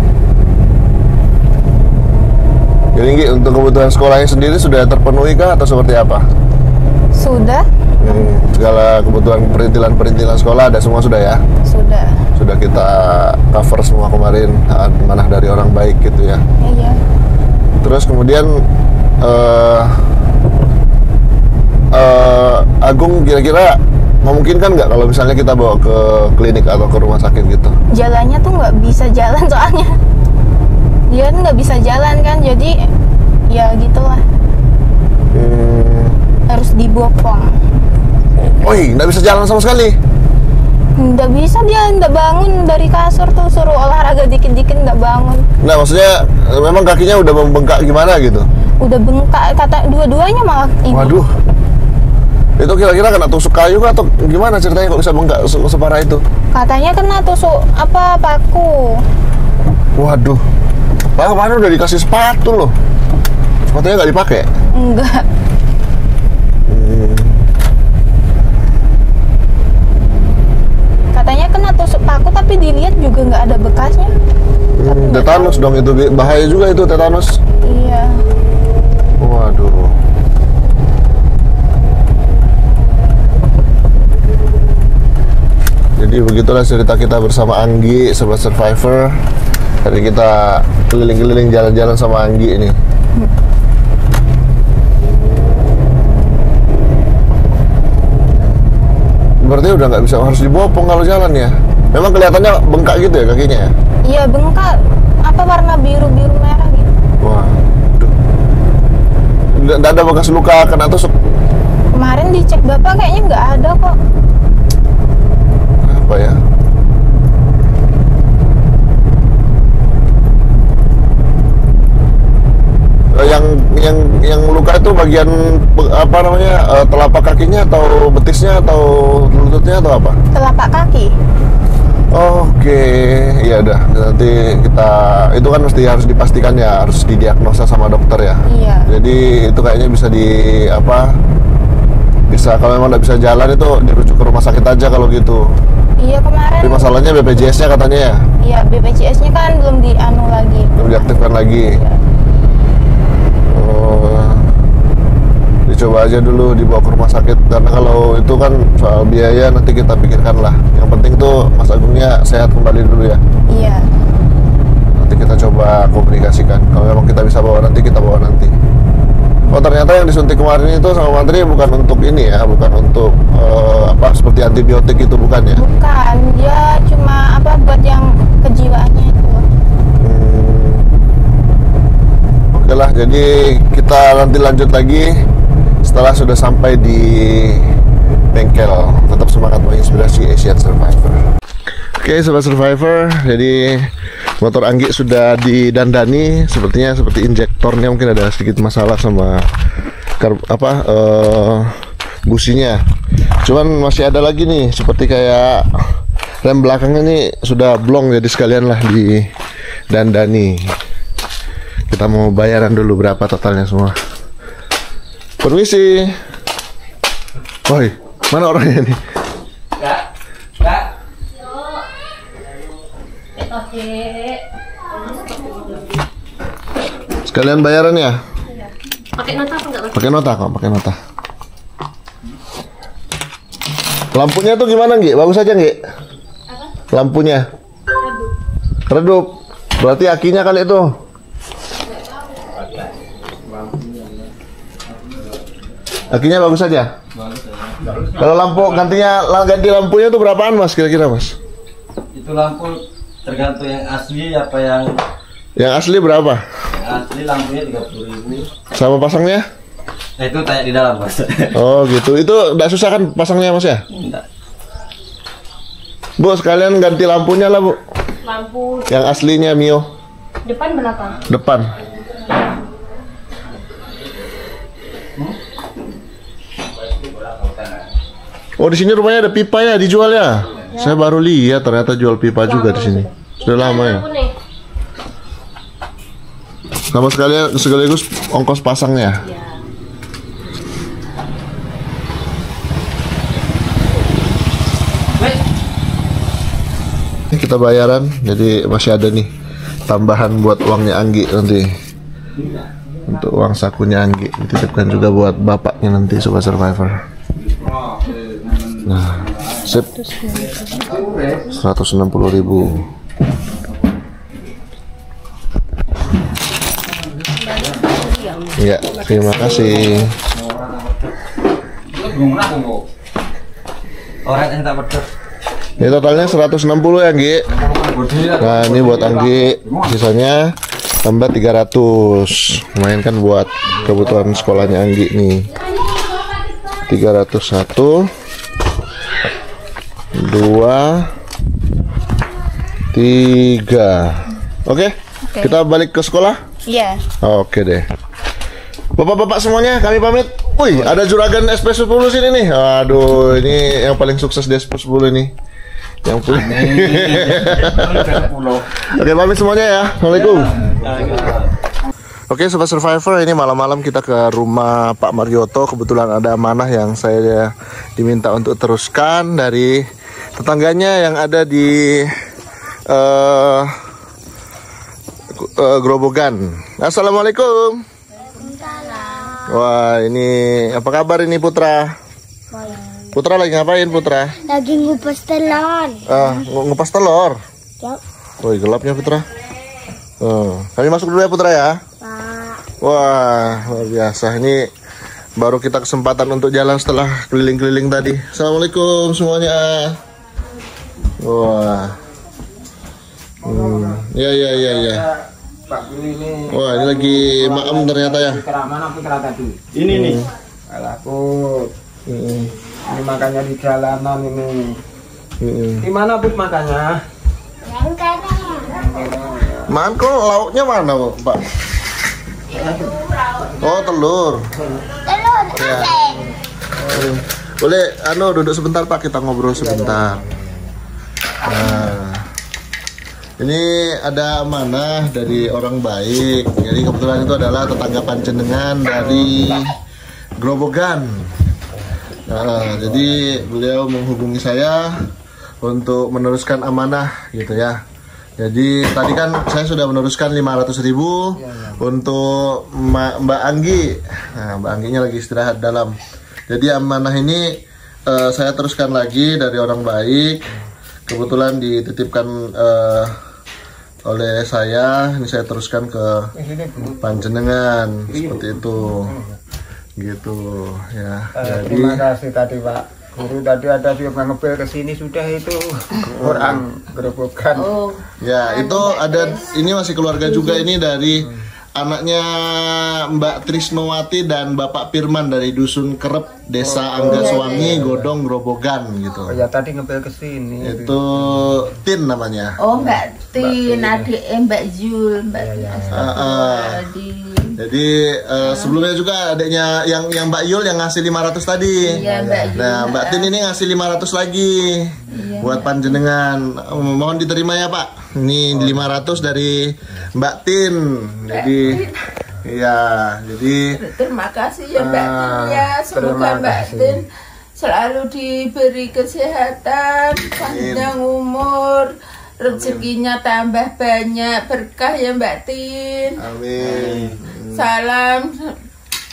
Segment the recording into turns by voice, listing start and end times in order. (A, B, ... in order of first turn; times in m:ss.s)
0:03.0-0:06.2 A
0:07.2-0:08.3 B
0:08.0-0:11.4 A
0:11.7-0:12.1 B
0:12.4-0:16.4 A
0:16.6-0:17.0 B
0:17.8-0:18.6 A
0:19.2-0:20.0 A
0:21.9-0:27.7 A
0:28.0-0:29.9 B
0:31.1-0:32.7 B
0:33.5-0:34.2 B
0:35.3-0:36.2 A
0:36.5-0:37.5 B
0:38.4-0:40.0 A
0:41.0-0:45.5 B
0:45.6-0:48.5 A
0:48.8-0:51.2 B
0:50.9-0:51.3 A
0:52.6-0:56.2 A
0:56.6-0:58.9 B
1:00.0-1:00.4 A
1:01.2-1:02.8 A
1:03.7-1:04.5 A
1:04.8-1:05.2 B
1:06.7-1:07.4 A
1:11.1-1:14.1 B
1:14.8-1:17.3 A
1:14.9-1:15.5 B
1:17.7-1:18.2 B
1:19.2-1:19.9 A
1:26.0-1:29.2 A
1:29.8-1:32.8 A
1:39.4-1:43.7 A
1:44.1-1:44.7 B
1:45.2-1:46.9 B
1:47.2-1:48.1 A
1:49.5-1:51.1 A
1:52.0-1:53.9 B
1:55.8-1:56.4 A
2:03.1-2:10.2 A
2:10.3-2:11.1 B
2:12.1-2:21.1 A
2:18.5-2:18.9 B
2:22.3-2:25.4 A
2:26.0-2:27.4 B
2:26.6-2:28.2 A
2:28.4-2:32.0 B
2:30.8-2:31.7 A
2:33.5-2:34.5 A
2:35.7-2:43.2 A
2:43.5-2:43.8 B
2:45.0-2:48.6 A
2:49.5-2:55.6 A
2:55.5-2:59.5 B
3:00.0-3:00.8 A
3:02.5-3:05.1 A
3:05.8-3:07.6 A
3:08.3-3:11.2 A
3:12.0-3:19.4 A
3:20.2-3:21.7 A
3:22.2-3:22.8 A
3:23.4-3:25.7 A
3:26.4-3:29.3 A
3:29.9-3:30.7 A
3:31.9-3:34.0 A
3:35.4-3:36.1 A
3:37.7-3:39.0 A
3:40.6-3:40.9 C
3:43.4-3:44.4 D
3:45.2-3:45.8 D
3:47.3-3:48.2 A
3:48.5-3:50.1 D
3:49.9-3:51.0 A
3:54.1-3:55.8 A
3:56.9-3:57.5 A
3:58.0-3:58.3 D
3:58.9-4:00.9 A
4:03.5-4:04.3 E
4:06.1-4:06.9 A
4:07.1-4:08.1 C
4:08.2-4:11.4 A
4:12.1-4:15.0 C
4:15.6-4:16.4 A
4:16.8-4:18.5 C
4:18.7-4:19.5 A
4:20.2-4:21.6 C
4:21.5-4:23.8 A
4:23.9-4:24.2 C
4:26.2-4:27.8 A
4:28.2-4:29.1 D
4:28.9-4:29.9 A
4:30.5-4:31.2 D
4:31.3-4:31.7 A
4:37.0-4:37.7 C
4:38.6-4:44.1 A
4:40.7-4:41.0 D
4:42.4-4:44.3 D
4:46.9-4:49.2 A
4:49.2-4:49.6 D
4:57.3-4:59.3 A
4:59.9-5:01.7 A
5:03.1-5:07.0 A
5:07.5-5:09.7 C
5:08.8-5:10.1 A
5:10.9-5:11.4 C
5:11.5-5:12.8 A
5:18.6-5:20.1 A
5:19.1-5:19.4 D
5:19.5-5:20.9 C
5:21.9-5:22.8 C
5:24.2-5:25.1 C
5:25.8-5:27.5 A
5:27.6-5:28.9 C
5:27.6-5:29.0 E
5:28.4-5:35.5 A
5:36.9-5:38.1 A
5:40.1-5:41.1 A
5:42.9-5:46.4 A
5:46.7-5:47.0 B
5:47.2-5:47.9 A
5:49.0-5:55.3 A
5:56.0-5:58.3 A
5:56.3-5:58.7 C
5:58.9-6:01.4 A
6:00.1-6:01.5 C
6:02.3-6:09.8 A
6:10.4-6:12.1 A
6:12.9-6:13.7 A
6:15.3-6:17.8 A
6:18.4-6:19.5 F
6:18.4-6:19.3 G
6:19.5-6:22.0 A
6:22.5-6:22.8 F
6:23.1-6:24.4 A
6:24.4-6:26.2 F
6:26.1-6:27.4 A
6:28.4-6:29.3 A
6:30.2-6:31.8 A
6:32.0-6:32.6 F
6:32.8-6:34.7 A
6:35.4-6:40.0 A
6:41.2-6:42.0 A
6:43.4-6:45.2 E
6:43.5-6:45.1 A
6:45.7-6:49.6 E
6:46.5-6:48.4 A
6:49.7-6:50.2 C
6:49.9-6:50.3 A
6:50.7-6:51.7 E
6:52.1-6:52.5 A
6:52.9-6:54.8 E
6:55.4-6:55.9 A
6:55.8-6:57.0 E
6:57.6-6:58.8 F
6:58.7-6:59.7 E
6:59.7-7:01.5 A
7:02.5-7:03.0 E
7:02.5-7:03.9 G
7:03.6-7:04.5 A
7:05.1-7:06.2 F
7:05.5-7:06.0 A
7:06.8-7:07.1 E
7:06.9-7:10.2 A
7:09.5-7:10.4 E
7:11.4-7:12.2 A
7:11.5-7:11.8 E
7:13.4-7:19.8 A
7:19.0-7:19.3 E
7:20.4-7:21.3 A
7:22.3-7:25.0 A
7:22.6-7:23.4 E
7:25.6-7:27.8 A
7:28.4-7:36.0 A
7:31.4-7:31.8 E
7:36.5-7:40.5 A
7:41.1-7:43.2 A
7:44.1-7:46.3 A
7:46.4-7:47.1 E
7:47.0-7:49.1 A
7:48.1-7:49.4 E
7:50.0-7:52.0 A
7:51.4-7:57.7 E
7:56.1-7:56.6 A
7:57.6-7:59.6 G
7:58.2-8:09.4 A
8:00.2-8:00.7 G
8:01.1-8:01.4 E
8:06.6-8:08.1 E
8:07.0-8:07.8 G
8:09.3-8:11.5 E
8:10.6-8:12.6 A
8:12.6-8:17.6 G
8:12.7-8:14.1 E
8:15.4-8:16.2 E
8:15.9-8:16.8 A
8:17.6-8:31.9 A
8:18.4-8:18.8 G
8:21.8-8:23.3 G
8:21.9-8:22.6 E
8:25.1-8:26.0 G
8:31.3-8:32.0 G
8:32.4-8:33.7 A
8:33.7-8:37.1 G
8:34.8-8:35.1 E
8:35.2-8:35.6 A
8:35.9-8:37.0 E
8:37.6-8:41.9 G
8:40.4-8:40.9 A
8:42.4-8:46.2 G
8:42.5-8:42.9 A
8:46.2-8:47.7 A
8:46.6-8:47.2 C
8:47.5-8:48.5 G